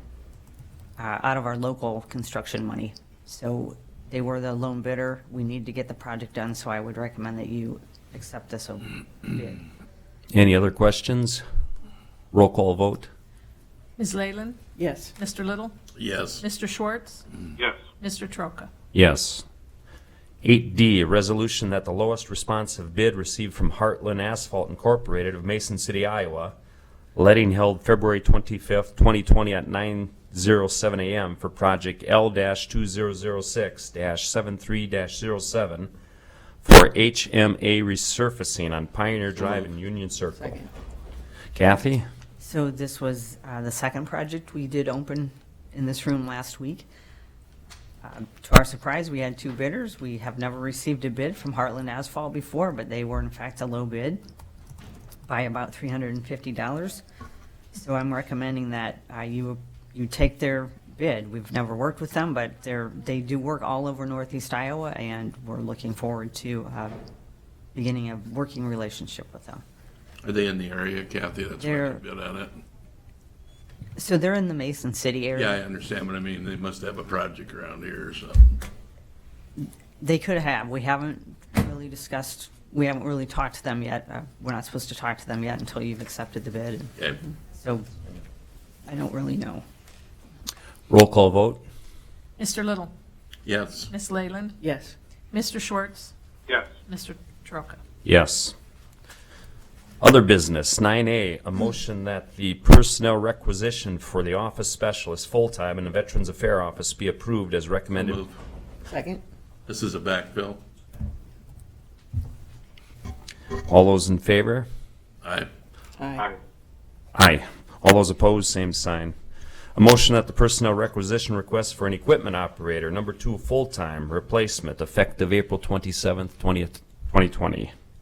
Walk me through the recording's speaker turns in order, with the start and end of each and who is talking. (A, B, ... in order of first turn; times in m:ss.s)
0:01.0-0:09.6 A
0:10.3-0:11.4 B
0:12.3-0:13.1 B
0:14.0-0:14.6 C
0:14.8-0:15.1 D
0:15.2-0:15.7 C
0:16.0-0:16.4 E
0:16.4-0:17.2 C
0:17.9-0:18.7 C
0:18.9-0:19.4 B
0:20.4-0:26.6 B
0:27.2-0:35.9 B
0:36.6-0:40.5 B
0:40.4-0:40.7 D
0:41.6-0:42.0 B
0:42.4-0:46.9 A
0:48.0-0:54.2 A
0:55.3-0:57.0 A
0:57.7-1:07.0 A
1:07.8-1:09.6 A
1:10.2-1:12.5 E
1:11.6-1:12.0 A
1:14.0-1:15.6 A
1:15.3-1:18.6 E
1:19.6-1:26.9 A
1:27.6-1:27.9 A
1:28.9-1:29.6 A
1:30.9-1:31.6 B
1:32.4-1:32.9 C
1:33.4-1:33.9 E
1:33.9-1:34.6 C
1:34.6-1:35.0 D
1:35.3-1:36.1 C
1:36.6-1:37.8 C
1:38.0-1:38.6 B
1:40.0-1:48.2 B
1:48.0-1:48.3 E
1:48.9-1:49.2 D
1:49.7-1:50.6 E
1:53.5-1:54.7 B
1:55.2-1:55.5 E
1:56.0-1:56.3 D
1:57.2-1:59.1 B
1:59.8-2:07.7 B